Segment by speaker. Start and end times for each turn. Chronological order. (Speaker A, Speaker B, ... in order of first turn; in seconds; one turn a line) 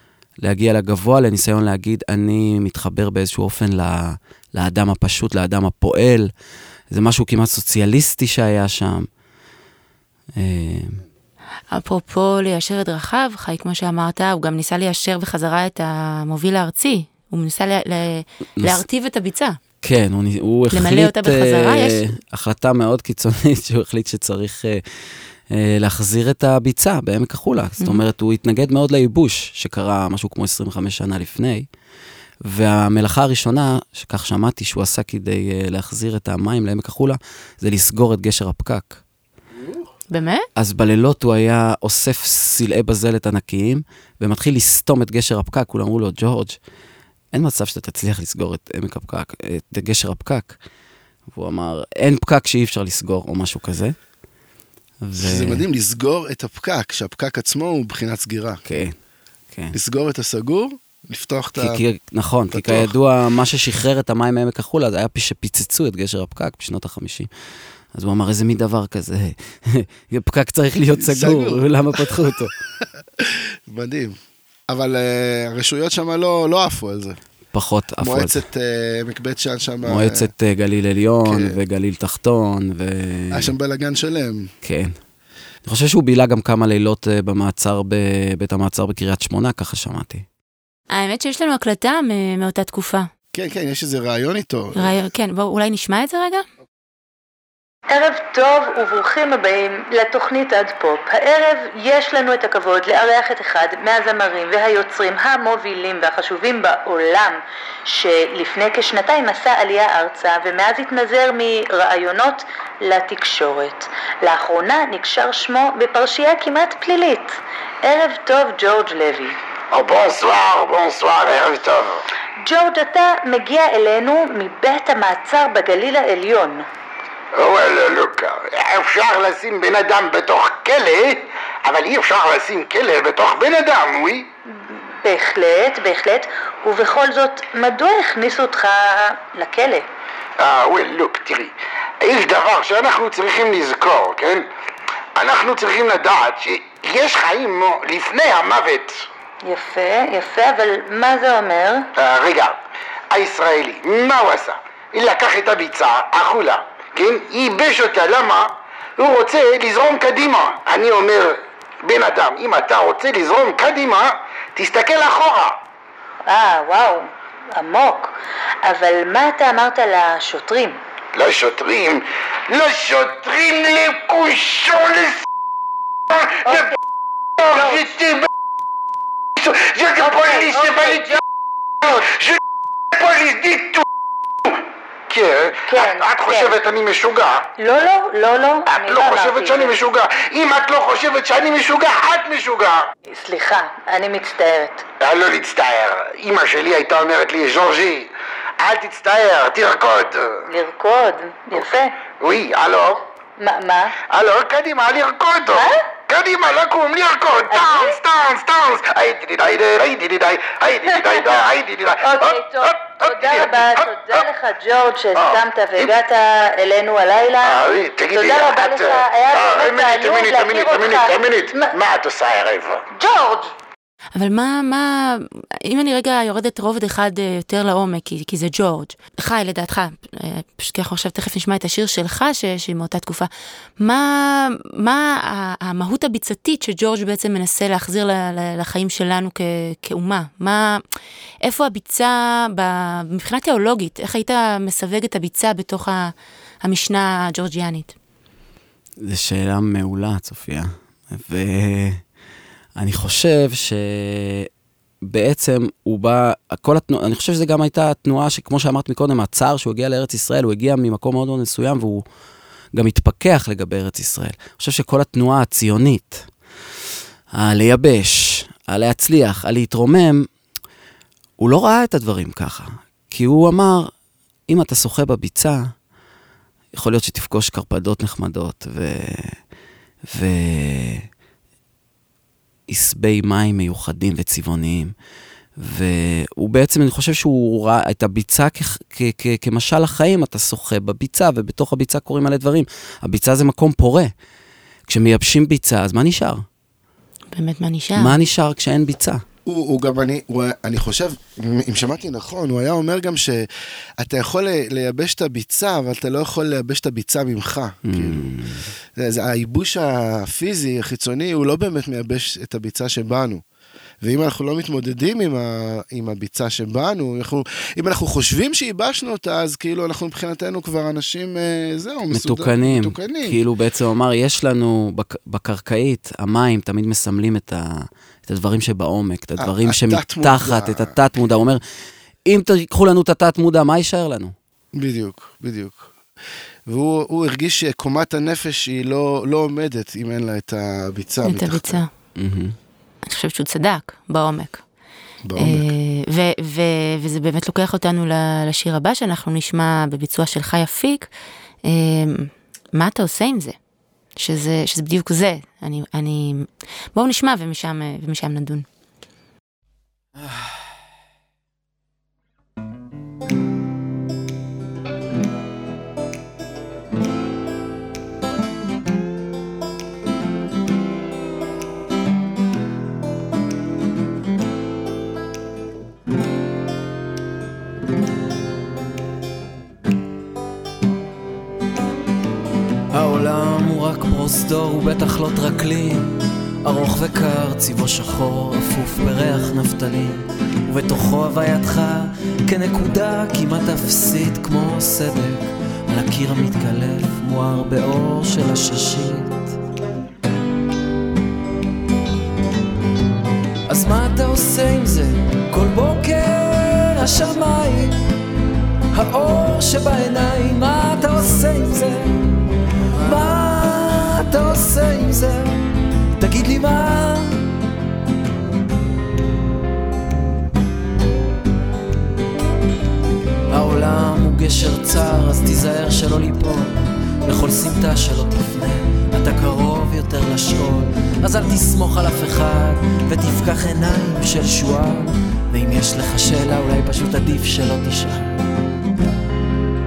Speaker A: 0.4-6.3
Speaker A: 6.9-9.1
Speaker A: 10.4-11.0
Speaker B: 11.7-19.6
Speaker A: 19.8-31.7
Speaker B: 20.7-22.1
Speaker A: 32.5-39.0
Speaker B: 40.1-40.5
Speaker A: 40.6-46.6
Speaker A: 47.3-50.6
Speaker A: 51.3-54.0
Speaker A: 55.0-55.6
Speaker C: 55.2-58.6
Speaker A: 58.6-59.0
Speaker C: 59.7-61.8
Speaker A: 61.6-67.3
Speaker C: 62.5-62.9
Speaker A: 67.9-72.5
Speaker C: 71.0-72.4
Speaker C: 73.2-74.2
Speaker C: 74.7-77.2
Speaker A: 77.5-78.4
Speaker C: 78.0-80.3
Speaker A: 79.8-83.5
Speaker C: 81.2-81.6
Speaker C: 83.3-84.5
Speaker A: 84.6-85.0
Speaker A: 85.7-90.2
Speaker B: 90.9-93.1
Speaker C: 93.3-95.0
Speaker B: 94.8-96.5
Speaker D: 97.9-119.4
Speaker E: 119.7-122.0
Speaker D: 122.4-126.7
Speaker E: 127.3-134.3
Speaker D: 135.0-139.9
Speaker E: 140.4-144.5
Speaker E: 145.2-149.0
Speaker D: 149.4-151.9
Speaker E: 152.0-152.6
Speaker E: 153.1-165.6
Speaker D: 166.2-170.8
Speaker E: 171.1-175.2
Speaker E: 176.1-176.7
Speaker D: 176.4-176.8
Speaker E: 177.4-178.3
Speaker D: 177.5-177.8
Speaker E: 179.4-181.2
Speaker D: 180.0-181.2
Speaker E: 181.8-182.4
Speaker E: 182.9-183.8
Speaker E: 185.1-187.5
Speaker D: 185.7-186.6
Speaker D: 187.6-189.8
Speaker E: 188.7-192.9
Speaker D: 193.1-194.8
Speaker E: 195.0-200.5
Speaker D: 200.5-202.0
Speaker E: 202.1-203.0
Speaker D: 203.4-203.9
Speaker E: 204.1-214.2
Speaker D: 205.5-205.8
Speaker D: 207.5-208.0
Speaker D: 210.9-211.4
Speaker D: 212.0-221.8
Speaker E: 215.2-215.9
Speaker E: 217.4-222.8
Speaker D: 222.9-223.5
Speaker B: 224.2-240.8
Speaker B: 241.4-246.1
Speaker B: 246.6-247.9
Speaker A: 249.0-252.0
Speaker A: 252.8-254.5
Speaker A: 255.0-262.0
Speaker A: 262.7-266.3
Speaker A: 267.3-270.3
Speaker A: 271.4-273.9
Speaker A: 274.5-275.7
Speaker A: 276.7-279.4
Speaker A: 280.1-281.1
Speaker A: 282.7-284.9
Speaker A: 285.6-294.1
Speaker A: 294.9-296.4
Speaker B: 297.3-298.2
Speaker A: 298.0-299.2
Speaker C: 299.5-313.4
Speaker A: 307.9-308.7
Speaker C: 314.0-323.4
Speaker A: 322.1-331.6
Speaker C: 329.4-330.9
Speaker A: 332.2-334.3
Speaker C: 334.8-335.9
Speaker C: 336.7-341.8
Speaker B: 341.2-341.9
Speaker A: 342.2-342.6
Speaker B: 343.0-344.6
Speaker C: 345.2-345.7
Speaker B: 345.4-351.1
Speaker B: 351.6-353.6
Speaker B: 354.2-358.7
Speaker F: 382.9-399.5
Speaker F: 403.7-408.0
Speaker F: 408.9-412.3
Speaker F: 413.0-415.6
Speaker F: 416.2-417.5
Speaker F: 423.5-438.4